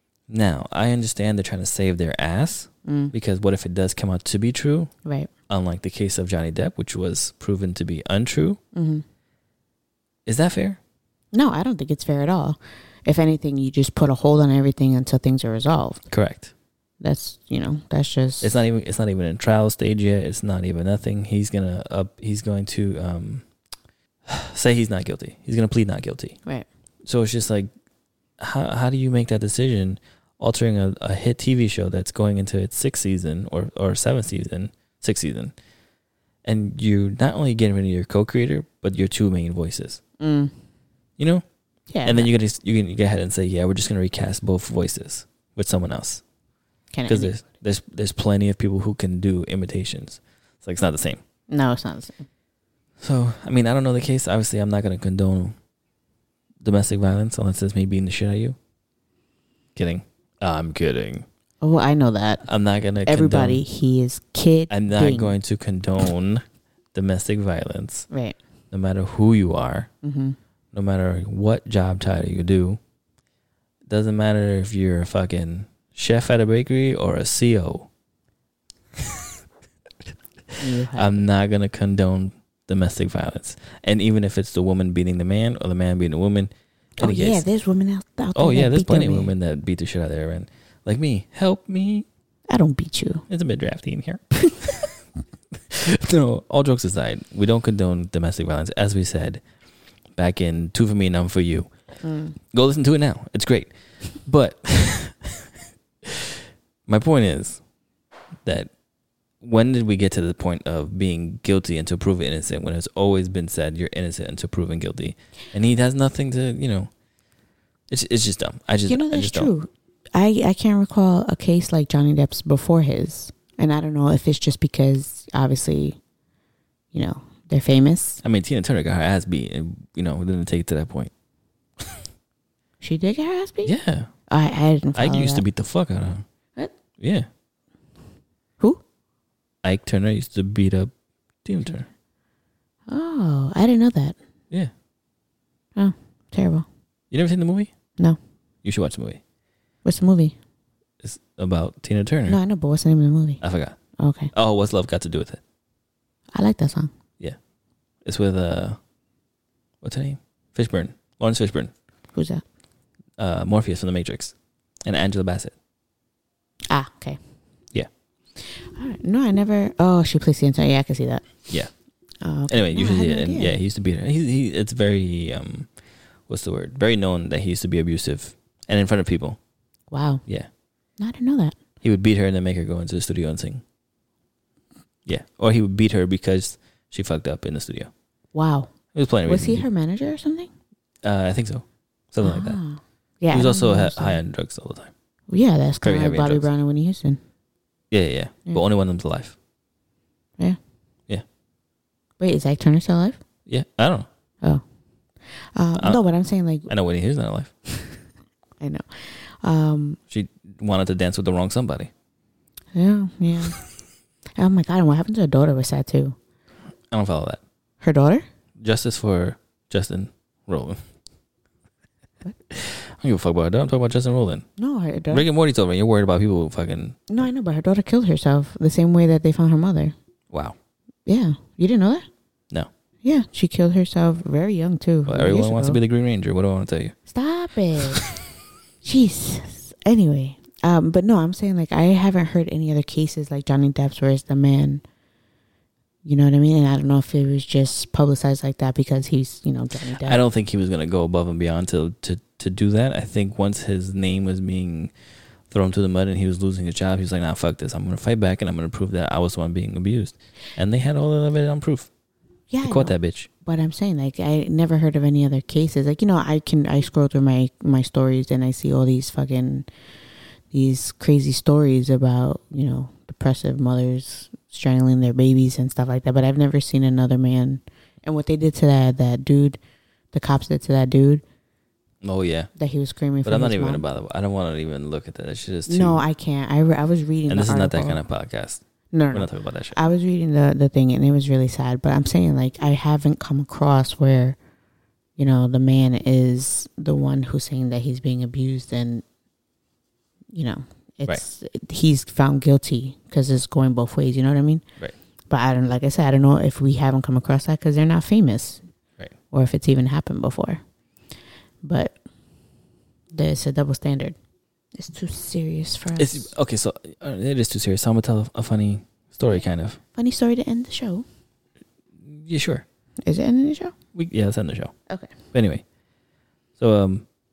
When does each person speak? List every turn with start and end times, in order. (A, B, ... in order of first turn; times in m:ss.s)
0:00.3-0:04.9 A
0:02.8-0:03.1 B
0:05.5-0:08.6 A
0:08.7-0:09.0 B
0:10.2-0:10.8 A
0:11.3-0:16.0 B
0:16.1-0:16.5 A
0:17.0-0:18.6 B
0:18.4-0:23.4 A
0:24.2-0:26.4 A
0:27.0-0:27.7 A
0:28.4-0:35.5 A
0:36.4-0:40.0 A
0:40.2-0:40.5 B
0:41.2-0:41.4 A
0:41.9-0:42.3 B
0:42.0-0:46.2 A
0:46.9-0:47.3 B
0:47.1-0:51.2 A
0:51.5-0:52.2 B
0:53.0-0:55.6 A
0:56.6-0:58.6 A
0:59.7-1:01.2 A
1:01.6-1:02.4 B
1:02.4-1:03.6 A
1:03.0-1:05.3 B
1:04.7-1:08.1 A
1:08.1-1:08.4 B
1:08.7-1:09.9 A
1:10.0-1:10.4 B
1:10.7-1:12.8 A
1:13.9-1:17.9 A
1:19.0-1:19.3 A
1:20.6-1:21.2 B
1:20.9-1:27.4 A
1:27.0-1:29.3 B
1:28.3-1:32.0 A
1:32.5-1:33.2 B
1:33.3-1:34.8 A
1:35.7-1:39.4 A
1:40.2-1:41.7 A
1:42.0-1:42.3 B
1:42.5-1:45.4 A
1:46.0-1:47.6 A
1:48.4-1:48.7 A
1:49.4-1:56.9 A
1:57.9-1:59.5 A
1:58.9-2:06.0 B
2:06.9-2:08.2 B
2:08.2-2:11.1 A
2:12.8-2:13.7 B
2:13.6-2:14.1 A
2:14.3-2:15.4 B
2:14.9-2:16.2 A
2:17.0-2:17.3 A
2:19.6-2:20.9 A
2:21.4-2:21.9 A
2:22.9-2:24.2 B
2:25.8-2:26.6 B
2:27.1-2:27.7 A
2:28.6-2:29.2 A
2:29.8-2:30.4 B
2:31.0-2:32.4 A
2:32.3-2:33.4 B
2:33.4-2:33.8 A
2:34.0-2:34.3 B
2:34.3-2:35.4 A
2:36.3-2:36.9 B
2:38.0-2:38.8 A
2:39.8-2:41.7 A
2:42.1-2:42.4 B
2:43.2-2:44.3 A
2:44.8-2:45.5 A
2:46.7-2:47.2 B
2:48.4-2:51.3 B
2:52.2-2:53.6 B
2:52.5-2:55.7 A
2:56.3-2:59.4 A
2:59.9-3:00.2 B
3:01.0-3:01.5 B
3:01.8-3:03.6 A
3:05.0-3:07.9 A
3:08.3-3:08.7 B
3:08.9-3:09.7 A
3:09.2-3:10.5 B
3:11.0-3:12.6 A
3:12.2-3:14.2 B
3:13.3-3:14.9 A
3:15.3-3:17.2 B
3:15.8-3:16.5 A
3:17.9-3:19.4 A
3:22.2-3:23.2 B
3:23.5-3:24.1 A
3:25.5-3:26.7 B
3:25.7-3:26.0 A
3:26.7-3:27.5 A
3:28.6-3:30.0 B
3:30.1-3:31.9 A
3:32.7-3:33.6 B
3:34.4-3:36.2 B
3:36.9-3:37.4 A
3:37.8-3:38.2 B
3:38.6-3:40.8 A
3:42.5-3:44.4 A
3:44.6-3:45.2 B
3:45.1-3:47.1 A
3:47.1-3:49.9 B
3:50.3-3:50.6 A
3:51.0-3:52.1 B
3:53.0-3:55.8 B
3:55.0-3:57.0 A
3:57.1-3:58.0 B
3:58.8-4:04.8 B
4:06.0-4:10.2 B
4:10.0-4:14.9 A
4:15.5-4:21.9 A
4:22.5-4:29.7 B
4:22.6-4:23.3 A
4:30.5-4:39.6 B
4:40.1-4:41.2 B
4:42.0-4:42.5 A
4:42.6-4:43.8 B
4:43.2-4:46.0 A
4:45.7-4:48.0 B
4:47.3-4:49.8 A
4:48.9-4:54.4 B
4:55.2-4:59.0 B
5:00.3-5:04.6 B
5:05.3-5:08.6 B
5:09.3-5:10.6 B
5:11.6-5:12.0 B
5:13.1-5:14.2 B
5:14.7-5:16.3 B
5:16.0-5:19.8 A
5:19.9-5:21.0 B
5:22.0-5:22.6 A
5:23.0-5:23.7 B
5:23.9-5:24.7 A
5:24.9-5:25.1 B
5:25.3-5:25.6 A
5:26.6-5:27.0 A